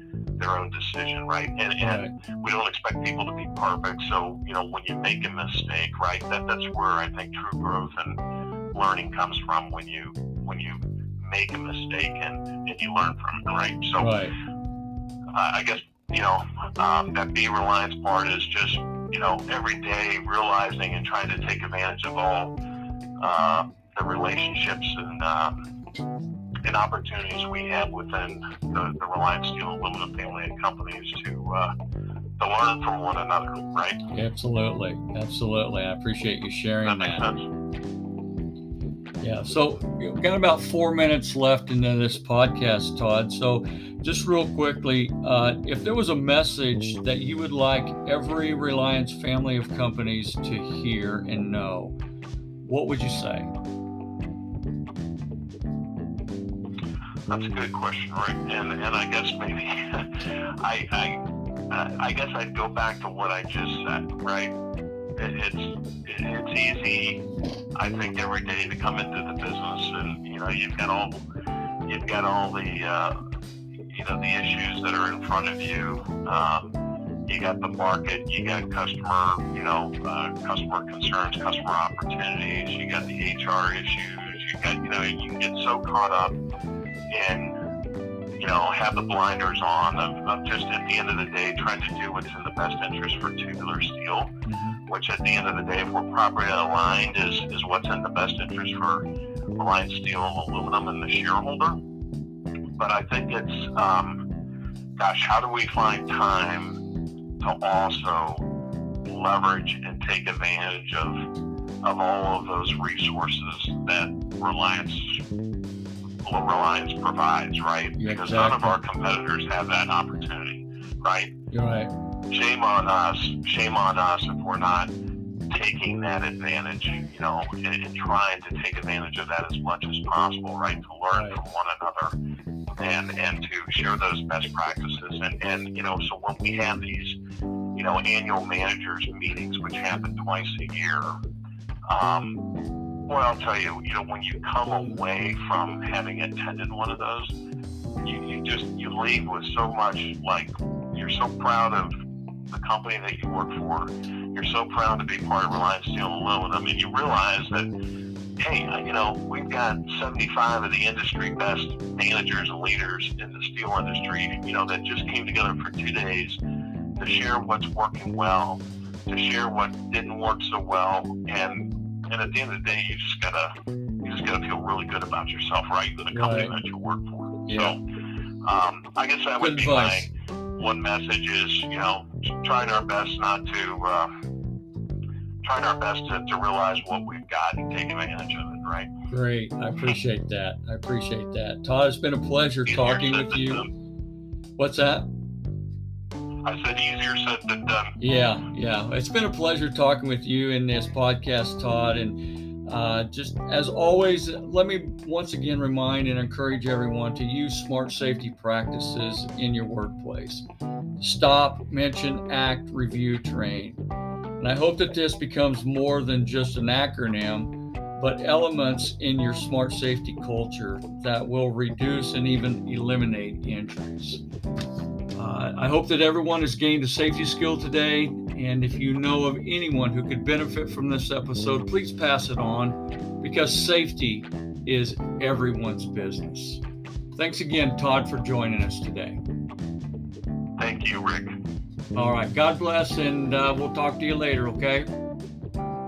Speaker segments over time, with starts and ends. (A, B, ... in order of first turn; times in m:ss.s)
0:00.4-0:08.2 A
0:01.8-0:02.1 B
0:08.7-0:14.2 A
0:14.0-0:14.3 B
0:15.3-0:22.5 A
0:23.2-0:25.6 A
0:26.6-0:31.7 A
0:32.4-0:34.0 A
0:34.1-0:37.3 B
0:36.8-0:37.5 A
0:39.2-0:52.0 B
0:52.6-0:53.5 B
0:57.3-1:04.5 A
1:05.2-1:07.2 A
1:07.7-1:11.2 A
1:11.8-1:13.2 A
1:13.9-1:16.7 A
1:17.3-1:26.4 A
1:27.1-1:27.6 A
1:28.4-1:39.0 A
1:34.4-1:34.8 B
1:39.6-1:41.8 A
1:42.8-1:44.2 A
1:45.0-1:46.8 A
1:47.4-1:48.4 A
1:49.0-1:51.2 A
1:51.8-1:55.2 A
1:56.2-2:01.3 A
1:58.0-1:58.8 B
2:01.5-2:01.9 B
2:02.3-2:04.9 A
2:05.5-2:12.1 A
2:11.1-2:11.4 B
2:12.8-2:17.2 A
2:17.7-2:21.2 A
2:21.9-2:22.4 A
2:23.0-2:27.3 A
2:28.0-2:31.9 A
2:32.5-2:37.7 A
2:38.4-2:46.4 A
2:47.0-2:57.8 A
2:56.1-2:56.5 B
2:57.5-2:57.8 B
2:58.4-3:04.1 A
2:59.4-3:00.1 B
3:05.4-3:08.9 A
3:09.1-3:13.6 B
3:12.7-3:13.7 A
3:14.6-3:15.1 B
3:16.4-3:18.0 A
3:18.0-3:30.4 B
3:31.0-3:33.8 B
3:34.4-3:44.2 B
3:45.1-3:56.6 B
3:57.2-3:59.2 B
4:00.6-4:01.4 A
4:01.9-4:04.9 B